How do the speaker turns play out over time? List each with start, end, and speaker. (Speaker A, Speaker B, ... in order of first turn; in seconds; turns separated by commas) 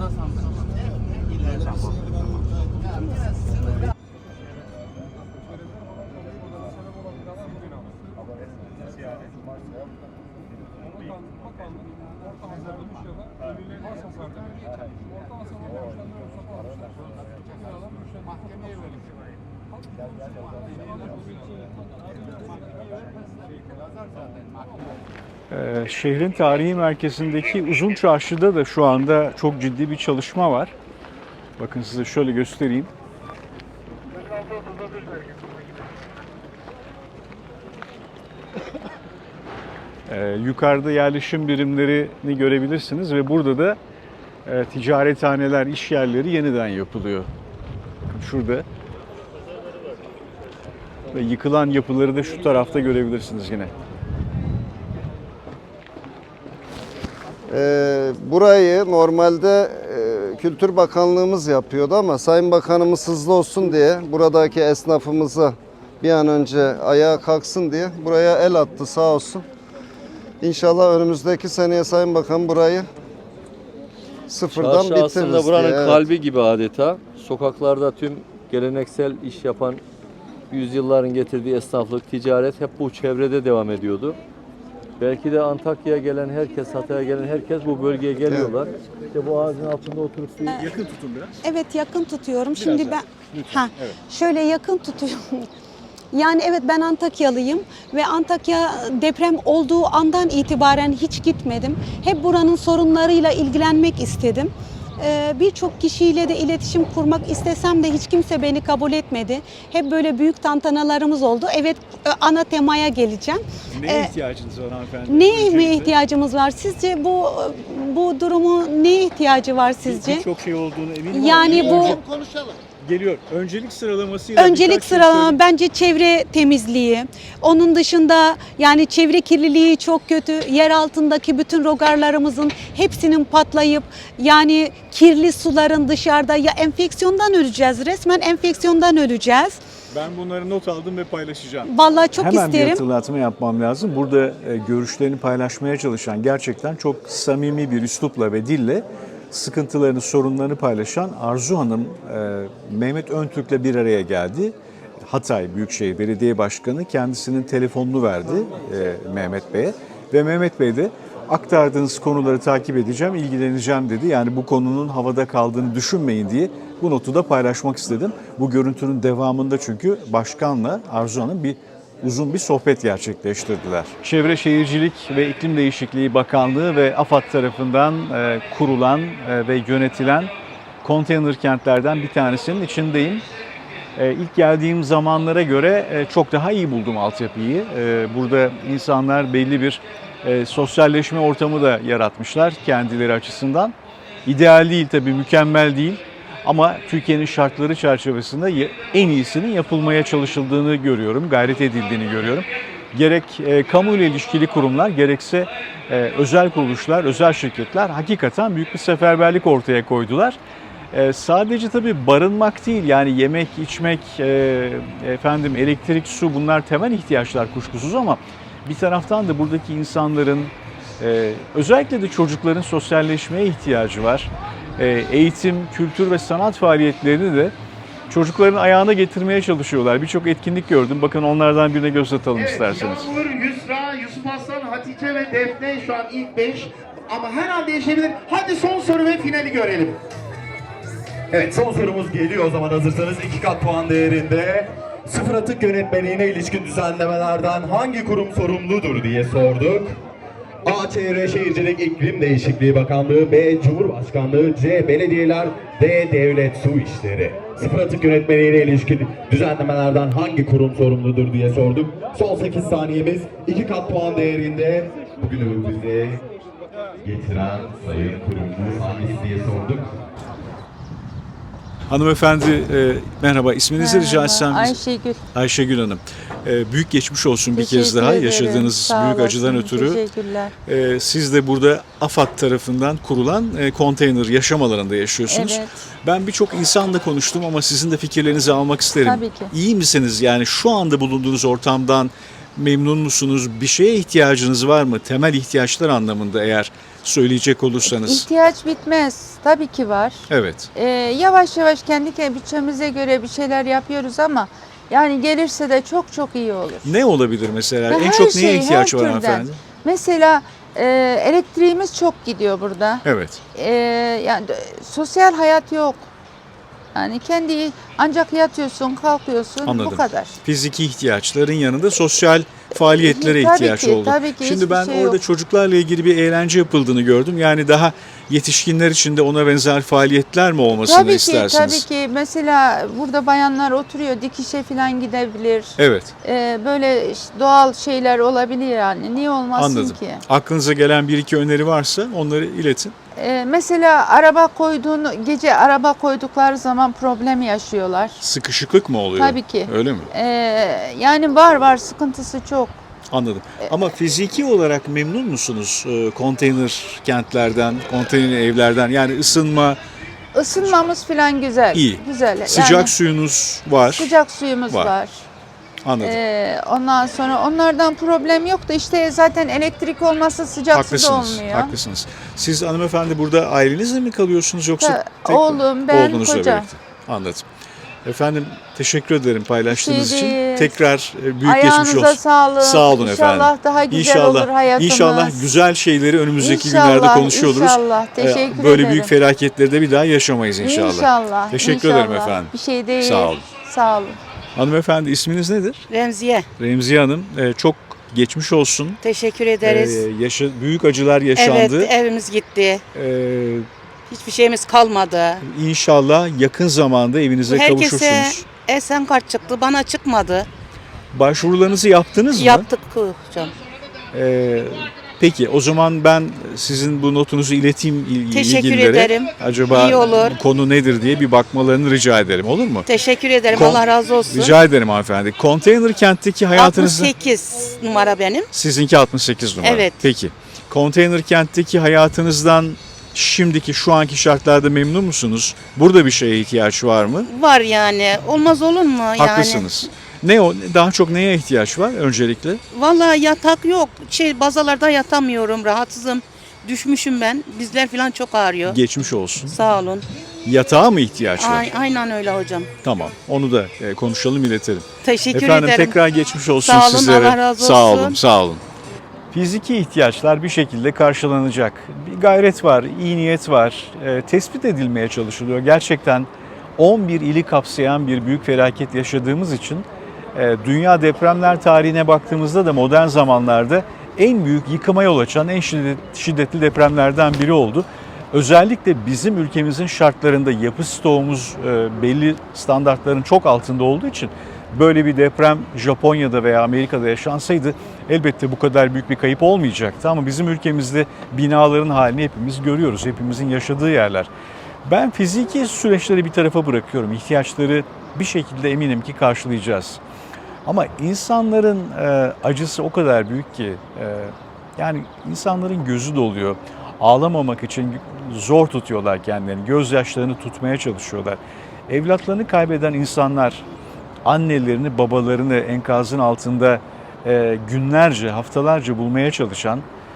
Speaker A: 1.4-2.5, Speaker B: 25.5-30.7, Speaker B: 31.6-32.9, Speaker B: 40.1-43.8, Speaker B: 44.5-47.3, Speaker B: 48.1-48.6, Speaker B: 51.1-53.7, Speaker A: 57.5-69.5, Speaker A: 70.4-72.9, Speaker A: 74.3-76.0, Speaker C: 74.5-79.8, Speaker C: 80.5-84.2, Speaker C: 85.0-90.6, Speaker A: 88.3-88.5, Speaker B: 90.5-91.4, Speaker D: 91.4-95.5, Speaker B: 92.5-94.0, Speaker D: 96.1-114.1, Speaker B: 113.7-116.0, Speaker D: 115.1-120.3, Speaker B: 119.8-122.0, Speaker D: 121.1-122.0, Speaker E: 121.5-122.6, Speaker B: 122.8-125.4, Speaker D: 124.4-139.6, Speaker B: 139.9-180.3, Speaker D: 141.7-142.8, Speaker B: 180.8-183.2, Speaker B: 184.0-210.4, Speaker B: 210.9-227.6, Speaker B: 228.1-233.1, Speaker E: 232.3-240.0, Speaker F: 241.3-250.0, Speaker F: 250.6-266.2, Speaker F: 267.0-269.9, Speaker B: 271.9-274.8, Speaker G: 273.8-275.2, Speaker B: 275.3-280.0, Speaker G: 277.5-280.5, Speaker B: 280.7-298.3, Speaker G: 285.3-285.8, Speaker G: 289.0-289.5, Speaker G: 297.9-306.9, Speaker B: 300.3-300.7, Speaker B: 306.8-309.6, Speaker G: 307.9-313.0, Speaker B: 313.0-313.4, Speaker G: 313.5-316.1, Speaker G: 316.9-320.4, Speaker B: 319.6-331.9, Speaker G: 323.0-325.2, Speaker G: 330.9-340.2, Speaker B: 335.8-336.1, Speaker B: 339.6-342.9, Speaker G: 343.2-348.2, Speaker B: 348.2-350.1, Speaker G: 349.2-352.8, Speaker B: 353.1-359.8, Speaker G: 360.3-362.9, Speaker B: 361.7-364.1, Speaker G: 363.9-365.3, Speaker B: 364.7-364.9, Speaker B: 365.8-366.2, Speaker G: 366.0-371.8, Speaker B: 370.7-377.5, Speaker G: 374.8-376.7, Speaker B: 378.1-393.4, Speaker G: 379.7-380.7, Speaker G: 381.4-385.5, Speaker G: 386.4-389.1, Speaker G: 390.6-394.2, Speaker B: 394.6-395.9, Speaker H: 395.9-396.5, Speaker B: 396.6-399.0, Speaker H: 399.0-400.1, Speaker B: 399.6-401.9, Speaker H: 401.4-402.8, Speaker B: 402.9-403.7, Speaker H: 404.1-405.4, Speaker B: 405.4-408.5, Speaker H: 407.5-410.5, Speaker B: 411.1-412.7, Speaker H: 412.3-413.5, Speaker B: 414.1-422.9, Speaker H: 418.3-420.4, Speaker H: 422.9-424.6, Speaker B: 423.5-427.1, Speaker H: 426.5-428.5, Speaker B: 428.5-437.3, Speaker H: 429.6-430.1, Speaker H: 437.3-439.9, Speaker B: 439.2-442.6, Speaker H: 442.7-448.8, Speaker B: 448.7-449.5, Speaker H: 449.4-450.0, Speaker B: 450.4-451.7, Speaker H: 451.4-452.7, Speaker B: 452.8-458.6, Speaker H: 455.0-456.0, Speaker H: 456.6-458.2, Speaker B: 459.3-494.3, Speaker B: 494.9-500.0, Speaker B: 500.7-513.6, Speaker B: 514.2-519.9